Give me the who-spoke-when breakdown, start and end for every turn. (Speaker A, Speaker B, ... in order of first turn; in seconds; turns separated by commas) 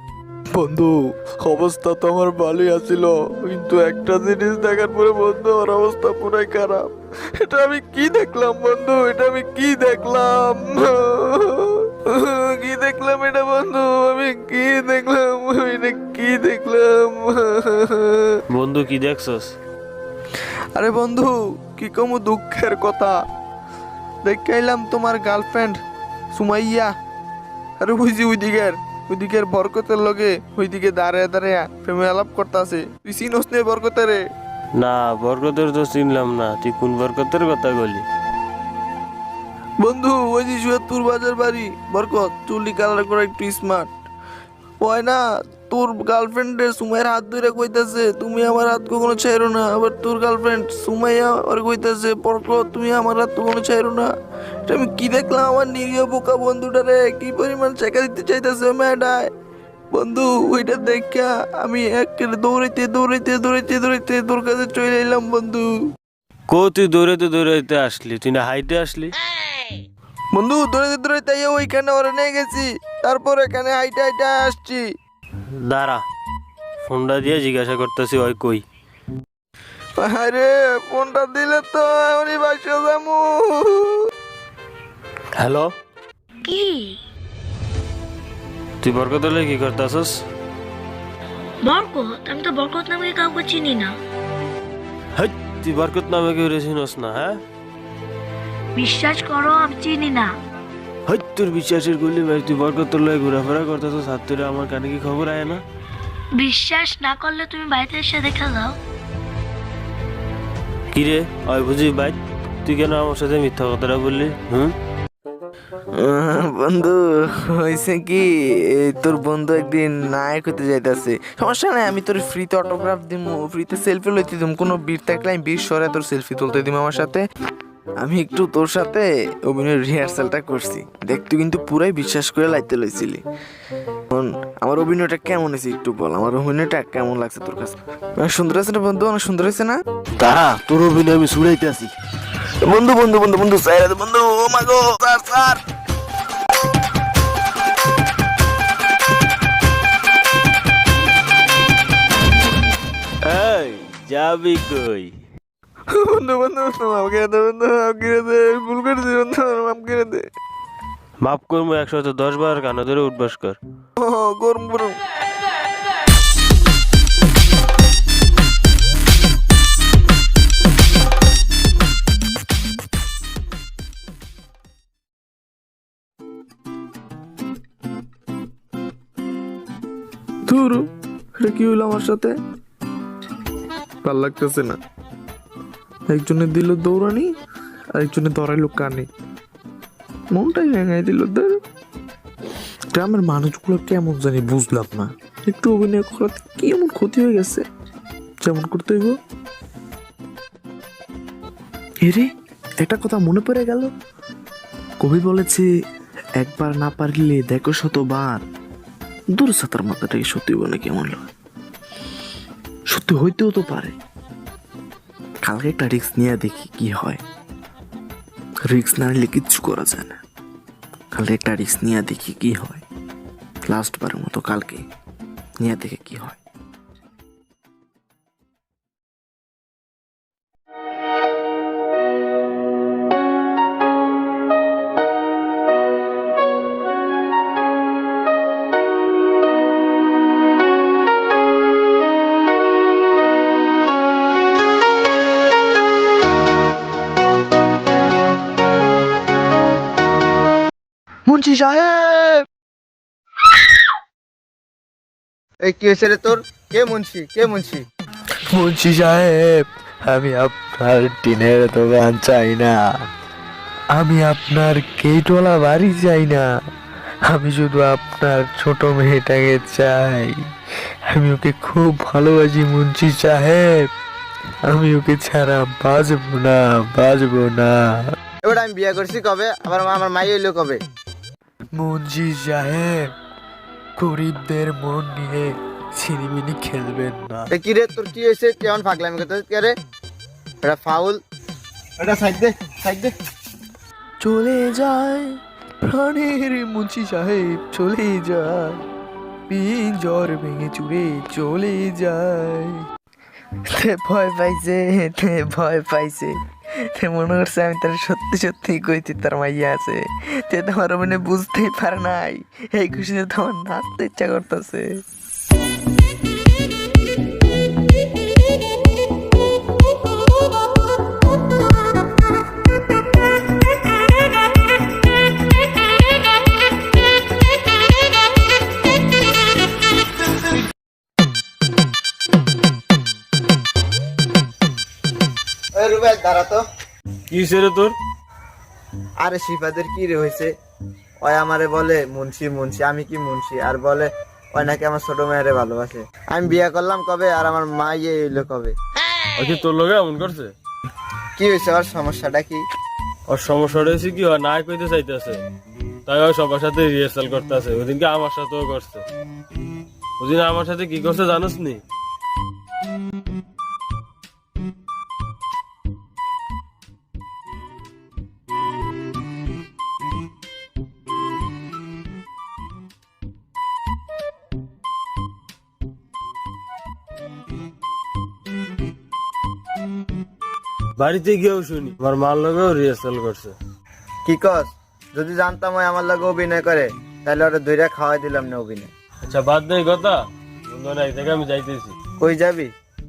Speaker A: 0.5-18.4, Speaker B: 18.5-19.5, Speaker A: 20.7-23.1, Speaker A: 24.2-25.8, Speaker A: 26.3-26.9, Speaker A: 27.8-34.2, Speaker B: 34.8-38.0, Speaker A: 39.8-43.9, Speaker A: 44.8-54.1, Speaker A: 54.7-59.3, Speaker A: 59.9-65.7, Speaker B: 66.5-69.1, Speaker A: 70.3-74.8, Speaker B: 75.6-76.0, Speaker B: 76.8-78.6, Speaker A: 80.0-84.0, Speaker B: 85.3-85.7, Speaker C: 86.4-87.0, Speaker B: 88.8-90.1, Speaker C: 91.6-93.9, Speaker B: 95.2-97.4, Speaker C: 98.8-100.3, Speaker B: 101.1-105.6, Speaker C: 106.3-108.8, Speaker B: 110.9-114.7, Speaker A: 116.0-127.2, Speaker A: 128.0-133.2, Speaker A: 134.1-139.8, Speaker B: 140.2-141.9, Speaker A: 142.6-145.6, Speaker B: 153.2-155.1, Speaker A: 155.9-160.2, Speaker B: 161.2-163.6, Speaker A: 164.0-164.9, Speaker A: 180.4-180.9, Speaker A: 181.4-182.3, Speaker A: 184.0-184.8, Speaker A: 186.1-187.3, Speaker A: 187.9-189.1, Speaker A: 190.3-191.5, Speaker A: 192.9-197.6, Speaker A: 198.4-199.2, Speaker A: 202.8-203.9, Speaker A: 205.0-205.6, Speaker A: 206.4-208.4, Speaker A: 209.3-211.2, Speaker A: 212.9-213.9, Speaker A: 215.4-217.2, Speaker A: 218.7-220.2, Speaker A: 221.1-222.8, Speaker A: 223.7-224.8, Speaker A: 225.6-226.4, Speaker A: 251.3-252.4, Speaker D: 255.6-257.8, Speaker A: 258.5-262.8, Speaker A: 263.9-266.5, Speaker A: 267.3-270.3, Speaker A: 271.1-273.9, Speaker A: 274.7-277.8, Speaker D: 278.4-280.8, Speaker A: 281.7-283.1, Speaker A: 284.0-287.5, Speaker D: 287.5-289.7, Speaker D: 290.6-291.2, Speaker D: 292.0-293.1, Speaker A: 294.2-298.8, Speaker A: 299.5-302.8, Speaker A: 303.7-306.4, Speaker A: 306.9-314.9, Speaker D: 335.8-336.6, Speaker B: 337.3-337.9, Speaker D: 339.2-340.5, Speaker D: 341.2-348.7, Speaker B: 349.4-350.5, Speaker D: 351.4-352.6, Speaker B: 353.3-355.4, Speaker B: 356.1-359.0, Speaker B: 360.2-361.8, Speaker B: 381.0-383.5, Speaker D: 384.2-388.9, Speaker B: 389.2-390.2, Speaker B: 390.7-391.9, Speaker D: 392.2-392.7